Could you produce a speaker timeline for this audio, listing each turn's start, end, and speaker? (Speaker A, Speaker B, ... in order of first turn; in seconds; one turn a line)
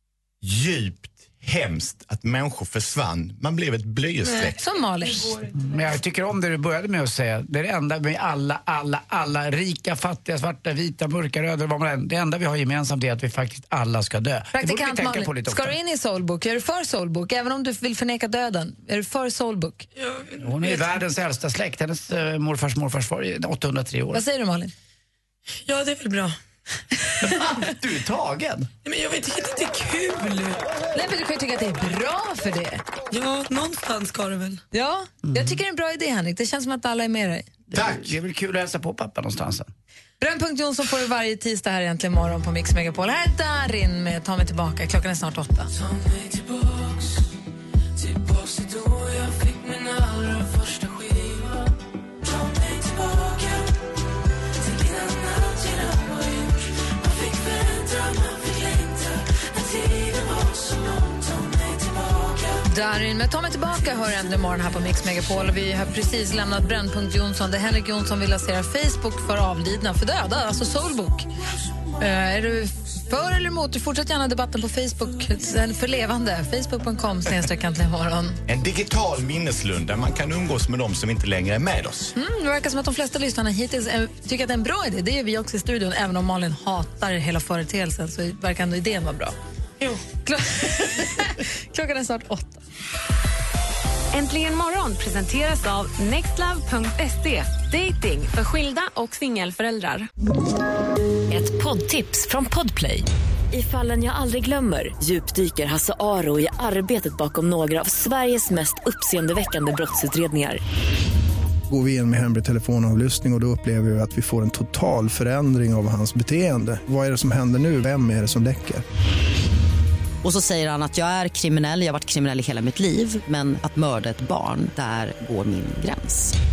Speaker A: 0.4-4.6
Speaker B: 4.5-5.3
Speaker C: 5.5-15.8
Speaker B: 14.5-19.9
Speaker D: 20.0-20.9
Speaker C: 20.4-24.2
Speaker B: 24.1-24.7
Speaker D: 25.7-26.4
Speaker D: 27.1-27.4
Speaker C: 27.2-28.7
Speaker D: 28.8-30.6
Speaker B: 30.9-32.8
Speaker D: 33.1-34.6
Speaker B: 34.7-37.5
Speaker C: 35.3-35.6
Speaker C: 37.7-39.7
Speaker B: 40.2-45.7
Speaker B: 62.6-71.3
Speaker B: 72.0-78.4
Speaker A: 78.5-82.1
Speaker B: 82.2-89.3
Speaker D: 89.8-90.0
Speaker B: 90.2-92.6
Speaker E: 94.1-100.1
Speaker F: 101.3-110.6
Speaker G: 111.7-118.8
Speaker H: 120.2-126.3